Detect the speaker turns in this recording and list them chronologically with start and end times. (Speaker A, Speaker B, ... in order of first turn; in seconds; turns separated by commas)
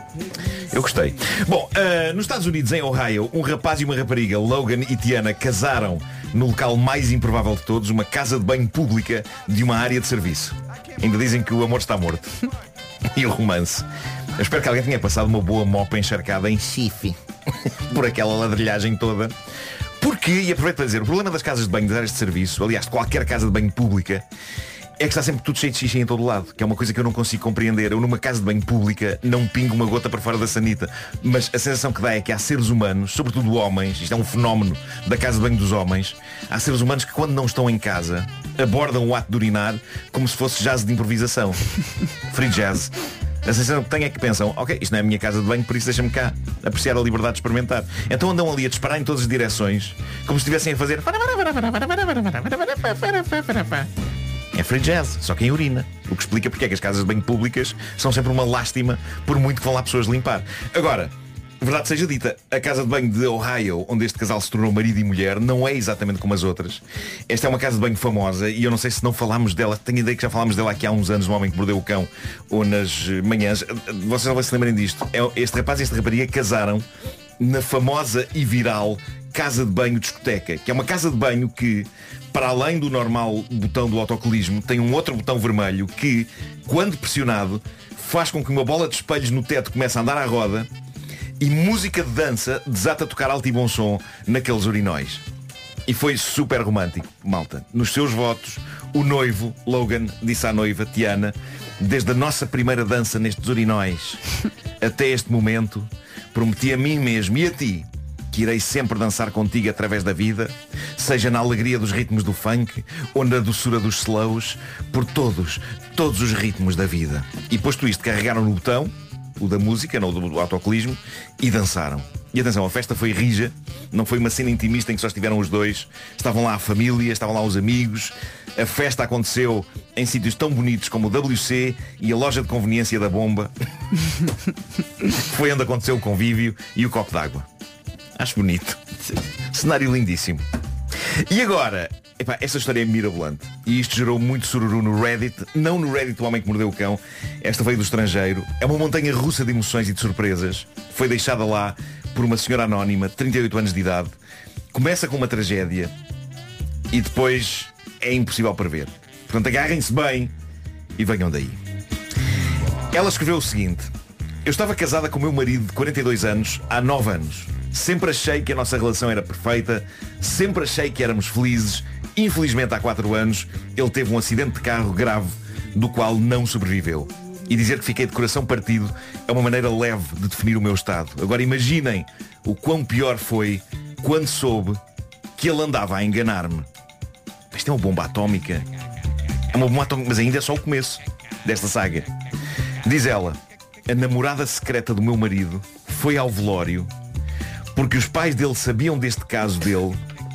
Speaker A: 0.7-12.4, Speaker A: 13.2-13.8, Speaker A: 14.4-17.2, Speaker A: 17.9-19.3, Speaker A: 20.0-24.2, Speaker A: 25.0-41.6, Speaker A: 42.3-42.9, Speaker A: 43.5-53.9, Speaker A: 54.5-76.9, Speaker A: 77.4-90.7, Speaker A: 91.4-95.2, Speaker A: 95.9-104.2, Speaker A: 104.8-133.5, Speaker A: 135.1-137.5, Speaker A: 138.2-138.8, Speaker A: 139.5-140.4, Speaker A: 141.3-154.1, Speaker A: 154.7-155.9, Speaker A: 156.9-160.3, Speaker A: 161.0-161.6, Speaker A: 162.9-163.9, Speaker A: 164.4-184.8, Speaker A: 185.4-186.7, Speaker A: 187.5-188.7, Speaker A: 189.5-192.1, Speaker A: 192.8-196.9, Speaker A: 197.8-200.0